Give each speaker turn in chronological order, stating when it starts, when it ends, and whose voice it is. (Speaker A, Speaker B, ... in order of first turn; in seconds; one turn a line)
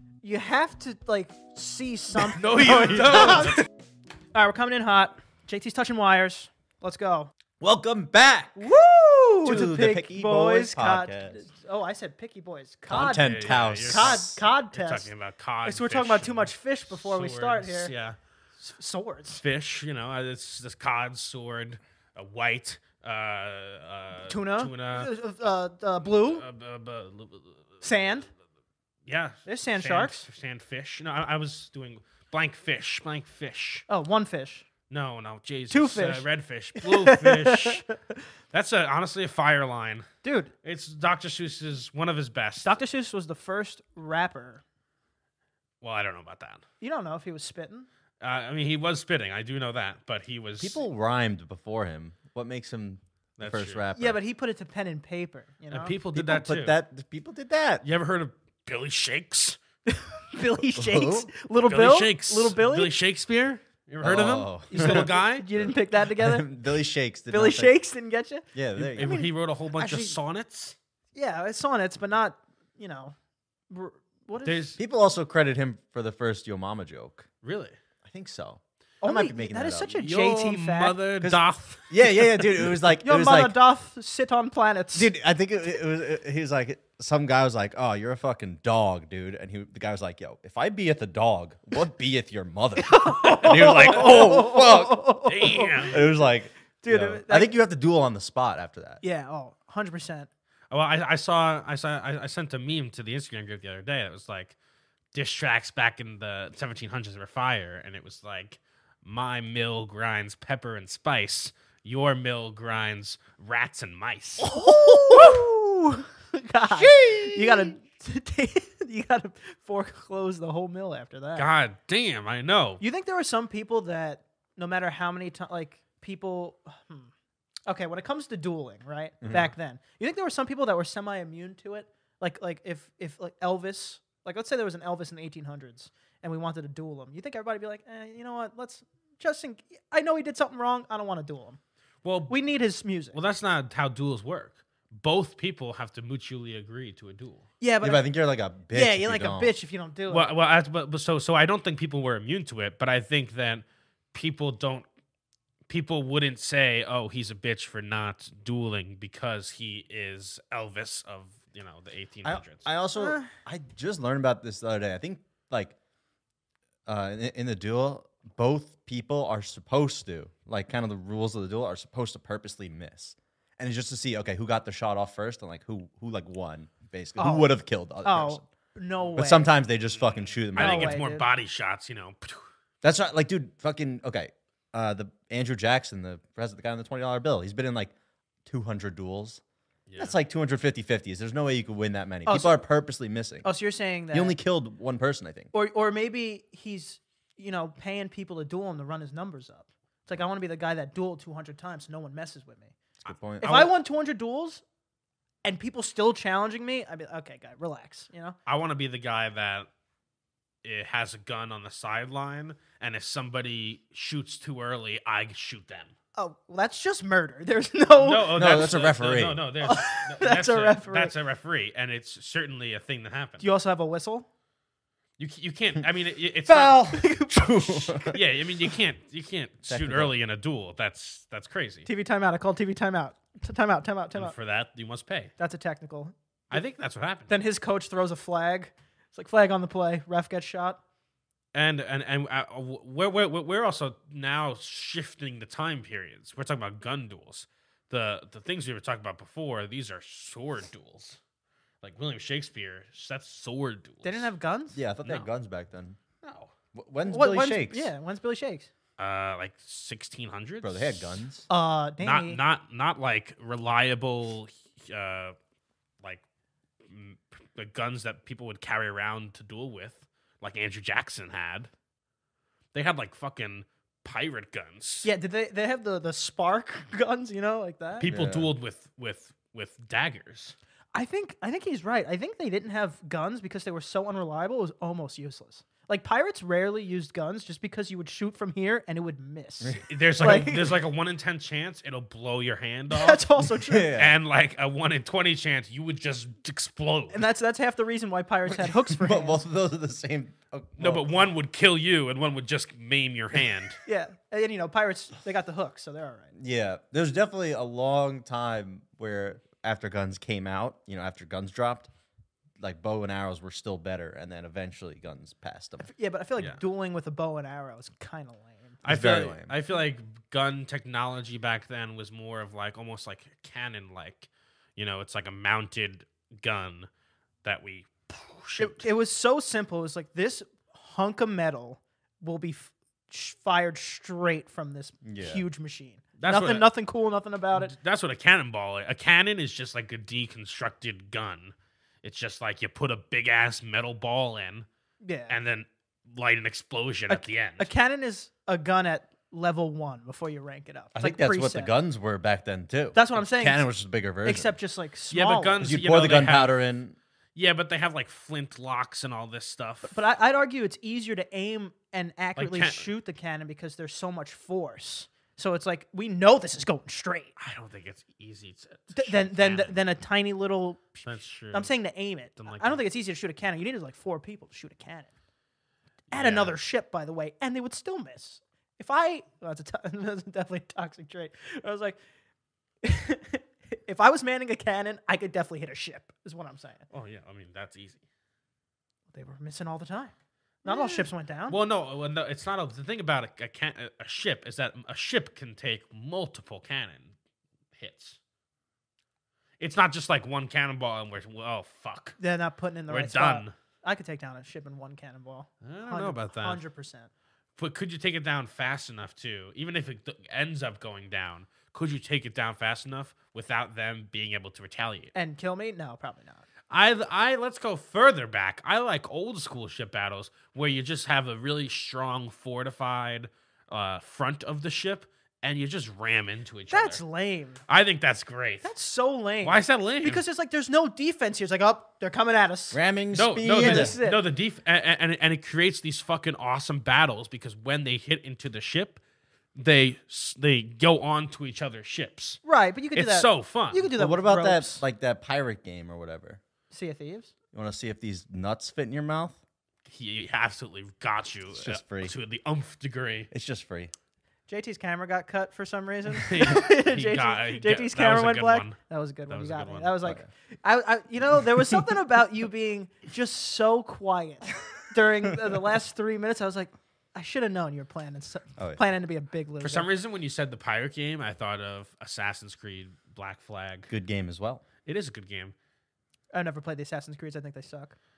Speaker A: 0.2-3.6
Speaker B: 2.3-3.7
Speaker A: 4.3-7.3
Speaker C: 7.6-8.7
Speaker A: 8.6-15.1
Speaker C: 9.4-11.4
Speaker C: 12.9-14.4
Speaker B: 12.9-18.2
Speaker A: 15.7-17.9
Speaker A: 18.6-19.4
Speaker B: 19.3-25.1
Speaker A: 24.3-26.4
Speaker B: 26.0-27.8
Speaker A: 27.8-28.3
Speaker B: 29.1-33.9
Speaker A: 29.4-30.3
Speaker A: 33.9-34.6
Speaker B: 34.9-37.9
Speaker A: 35.7-38.0
Speaker B: 38.5-40.1
Speaker A: 40.2-40.5
Speaker B: 40.6-42.8
Speaker A: 42.6-44.6
Speaker B: 45.8-46.6
Speaker A: 46.8-47.9
Speaker B: 48.2-50.8
Speaker C: 50.6-54.2
Speaker B: 53.4-53.9
Speaker A: 54.0-56.0
Speaker B: 55.7-56.8
Speaker C: 56.1-57.8
Speaker B: 57.8-59.6
Speaker A: 59.9-62.9
Speaker C: 60.8-61.3
Speaker B: 61.7-65.5
Speaker C: 64.0-67.8
Speaker A: 64.7-66.5
Speaker A: 67.3-69.3
Speaker C: 68.5-69.2
Speaker B: 69.0-70.8
Speaker C: 69.8-70.2
Speaker A: 71.2-73.2
Speaker A: 73.7-74.8
Speaker B: 74.4-74.8
Speaker C: 74.8-77.3
Speaker B: 77.4-77.8
Speaker C: 78.0-79.9
Speaker A: 79.0-81.0
Speaker B: 79.9-82.0
Speaker C: 81.2-83.5
Speaker A: 83.0-85.1
Speaker C: 84.9-99.0
Speaker A: 92.8-96.2
Speaker B: 93.8-94.3
Speaker B: 95.2-96.1
Speaker A: 96.8-97.5
Speaker A: 99.0-100.3
Speaker B: 100.7-104.6
Speaker B: 105.1-114.5
Speaker A: 114.4-121.5
Speaker C: 114.6-115.4
Speaker C: 116.8-117.7
Speaker B: 121.4-122.8
Speaker A: 122.8-127.1
Speaker A: 127.7-141.6
Speaker C: 129.2-129.5
Speaker B: 142.0-142.3
Speaker A: 142.3-143.2
Speaker B: 143.1-147.5
Speaker A: 147.6-148.0
Speaker C: 147.8-149.6
Speaker A: 148.7-150.3
Speaker B: 150.1-154.9
Speaker B: 155.7-162.7
Speaker C: 162.2-165.8
Speaker A: 163.0-163.3
Speaker C: 166.9-178.5
Speaker A: 177.2-179.5
Speaker C: 179.2-181.0
Speaker B: 179.9-182.5
Speaker A: 180.6-181.2
Speaker C: 182.8-187.9
Speaker C: 188.5-189.4
Speaker B: 189.9-190.2
Speaker C: 190.0-193.5
Speaker A: 192.3-192.6
Speaker A: 193.4-194.4
Speaker C: 194.1-195.5
Speaker A: 195.5-202.7
Speaker C: 203.1-203.7
Speaker A: 203.4-204.6
Speaker A: 205.4-208.4
Speaker B: 208.5-209.7
Speaker B: 210.6-215.9
Speaker A: 216.2-218.6
Speaker B: 218.0-223.5
Speaker C: 218.3-219.4
Speaker A: 219.6-221.1
Speaker A: 223.4-224.3
Speaker B: 225.2-226.9
Speaker C: 226.5-228.2
Speaker A: 226.8-228.2
Speaker B: 228.1-231.9
Speaker C: 229.7-230.1
Speaker A: 231.9-234.3
Speaker B: 234.2-235.3
Speaker A: 235.4-236.6
Speaker B: 236.5-237.3
Speaker A: 237.3-240.8
Speaker B: 241.5-251.2
Speaker B: 251.8-254.3
Speaker A: 254.0-254.8
Speaker C: 254.7-256.0
Speaker B: 256.2-256.5
Speaker C: 256.7-257.9
Speaker A: 257.1-258.7
Speaker B: 259.0-261.2
Speaker C: 260.6-261.5
Speaker A: 261.5-262.4
Speaker B: 262.0-265.4
Speaker B: 266.9-271.7
Speaker B: 272.7-275.1
Speaker A: 275.0-278.1
Speaker B: 278.0-280.6
Speaker C: 278.1-278.5
Speaker A: 280.9-290.8
Speaker B: 289.9-293.3
Speaker A: 292.9-293.9
Speaker C: 293.6-294.2
Speaker B: 294.0-297.2
Speaker A: 297.1-299.4
Speaker C: 298.7-301.2
Speaker B: 300.8-303.8
Speaker A: 303.9-306.3
Speaker C: 306.3-311.9
Speaker C: 312.6-315.9
Speaker A: 315.8-318.8
Speaker B: 318.8-326.9
Speaker C: 318.9-319.5
Speaker B: 327.4-328.9
Speaker A: 328.6-337.8
Speaker C: 335.1-335.4
Speaker B: 336.2-336.7
Speaker B: 337.5-344.7
Speaker A: 345.0-345.4
Speaker B: 345.3-347.7
Speaker A: 347.1-351.7
Speaker C: 350.9-354.5
Speaker A: 352.9-353.7
Speaker A: 354.2-355.7
Speaker B: 355.1-356.6
Speaker C: 355.6-357.0
Speaker B: 357.4-360.0
Speaker A: 359.9-367.3
Speaker B: 362.4-362.9
Speaker B: 367.4-369.8
Speaker A: 368.9-375.1
Speaker B: 371.1-371.7
Speaker B: 372.4-372.8
Speaker B: 376.1-376.6
Speaker A: 376.1-382.0
Speaker A: 382.8-386.9
Speaker B: 386.9-388.0
Speaker A: 389.1-390.1
Speaker A: 390.6-391.6
Speaker B: 390.6-397.1
Speaker B: 397.7-398.2
Speaker B: 399.6-402.2
Speaker A: 402.2-407.1
Speaker B: 402.9-403.5
Speaker B: 405.6-406.6
Speaker B: 407.6-415.1
Speaker A: 415.1-416.4
Speaker B: 416.7-427.0
Speaker A: 426.7-427.6
Speaker B: 427.7-428.7
Speaker A: 428.6-432.8
Speaker B: 429.4-430.2
Speaker C: 432.7-433.9
Speaker B: 433.1-439.0
Speaker A: 433.5-434.2
Speaker B: 439.6-442.4
Speaker A: 442.4-444.8
Speaker B: 442.9-443.9
Speaker C: 443.9-446.4
Speaker A: 446.7-447.3
Speaker C: 447.5-449.4
Speaker B: 449.9-453.3
Speaker C: 451.5-452.1
Speaker C: 453.3-453.9
Speaker A: 454.5-469.9
Speaker B: 456.2-458.8
Speaker B: 459.3-460.0
Speaker B: 469.6-473.9
Speaker C: 473.9-474.6
Speaker B: 474.9-475.6
Speaker A: 476.3-478.0